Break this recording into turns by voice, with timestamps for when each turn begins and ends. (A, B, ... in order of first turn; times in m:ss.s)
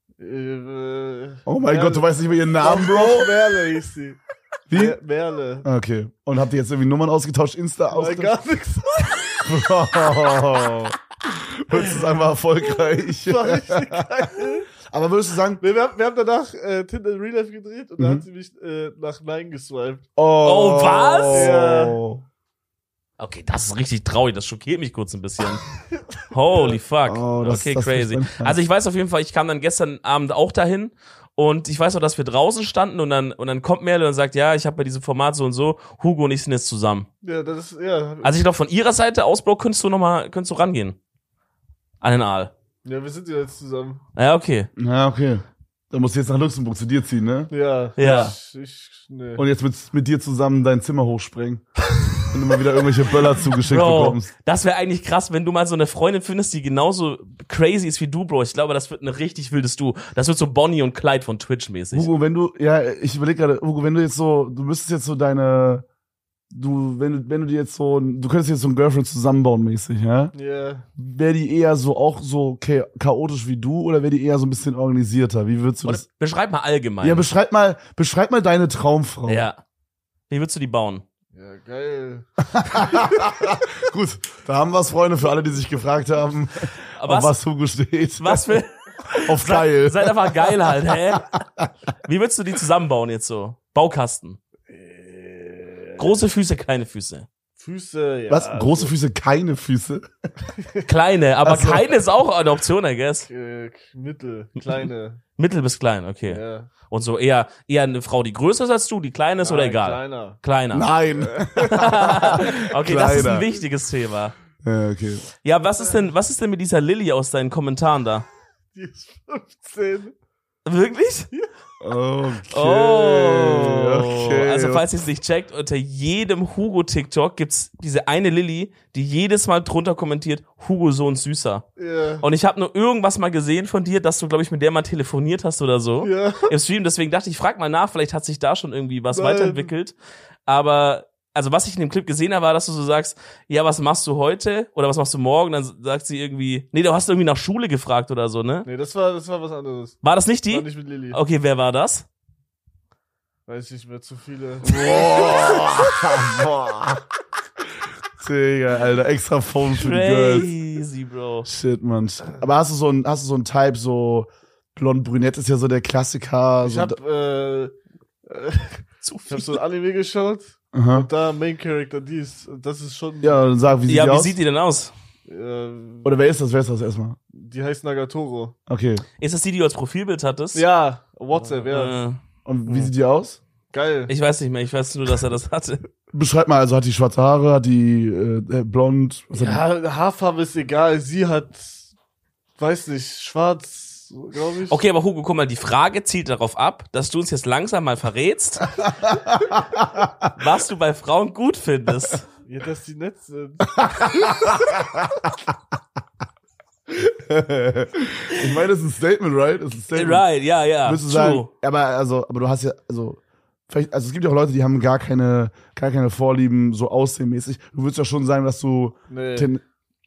0:00.2-0:04.2 A
0:01.5-0:03.3 B
0:04.7-0:05.0 B
0:04.7-0:05.6 A
0:05.6-0:08.4 B
0:07.9-0:09.5 A
0:09.4-0:15.6 B
0:13.2-0:14.7 A
0:15.6-0:20.0 A
0:18.0-0:18.2 B
0:20.2-0:22.2 B
0:20.4-0:21.5 C
0:21.3-0:22.0 A
0:23.2-0:25.6 C
0:26.3-0:37.1 C
0:26.5-0:26.8 A
0:27.1-0:28.6 B
0:37.2-0:38.4 A
0:38.2-0:41.0 C
0:42.0-0:42.5 C
0:42.8-0:44.0 A
0:44.2-0:44.7 C
0:44.8-0:47.5 B
0:47.5-0:49.4 A
0:48.0-0:48.4 C
0:49.4-0:51.6 B
0:52.2-0:54.3 B
0:53.6-1:02.1 C
1:01.9-1:05.8 B
1:06.5-1:10.3 B
1:10.3-1:10.9 A
1:11.0-1:16.0 B
1:15.8-1:17.3 C
1:17.0-1:19.5 B
1:19.3-1:19.6 C
1:20.3-1:21.0 C
1:21.3-1:23.1 A
1:22.5-1:28.6 B
1:27.0-1:27.4 C
1:28.2-1:31.4 C
1:29.1-1:30.5 B
1:31.2-1:31.7 B
1:32.0-1:34.4 C
1:34.7-1:36.2 A
1:36.0-1:37.3 C
1:37.6-1:38.9 A
1:38.3-1:40.1 B
1:40.6-1:40.9 A
1:40.8-1:43.3 C
1:41.4-1:42.0 B
1:43.2-1:45.2 A
1:45.4-1:50.9 C
1:46.3-1:46.7 A
1:49.4-1:50.4 A
1:50.7-1:53.5 B
1:51.2-1:52.4 A
1:51.7-1:54.4 C
1:54.6-1:55.2 B
1:55.4-1:58.3 C
1:58.8-2:00.1 A
2:00.7-2:01.3 C
2:01.8-2:04.9 B
2:02.5-2:11.6 C
2:11.8-2:12.3 A
2:12.2-2:20.0 C
2:16.0-2:16.5 A
2:19.1-2:19.7 A
2:20.5-2:28.7 C
2:28.6-2:30.0 A
2:30.0-2:32.0 C
2:30.5-2:31.2 A
2:33.5-2:34.8 A
2:34.6-2:37.0 B
2:38.2-2:40.5 B
2:39.7-2:41.5 C
2:41.5-2:47.0 B
2:46.6-2:53.5 A
2:49.0-2:49.6 C
2:50.7-2:51.1 B
2:53.2-2:54.4 B
2:53.9-2:54.9 C
2:55.3-2:56.1 A
2:56.0-2:57.2 B
2:57.3-2:58.6 A
2:58.7-2:59.0 B
2:59.2-3:00.6 C
3:00.5-3:02.0 A
3:01.7-3:02.2 C
3:02.4-3:03.4 B
3:03.7-3:04.1 A
3:04.1-3:05.8 C
3:06.1-3:09.6 B
3:09.3-3:11.9 A
3:12.6-3:14.8 A
3:14.7-3:18.8 C
3:19.0-3:20.3 B
3:20.4-3:22.3 C
3:22.5-3:23.9 A
3:23.7-3:25.3 B
3:26.9-3:30.2 B
3:29.9-3:31.5 C
3:30.8-3:39.6 B
3:39.1-3:39.5 A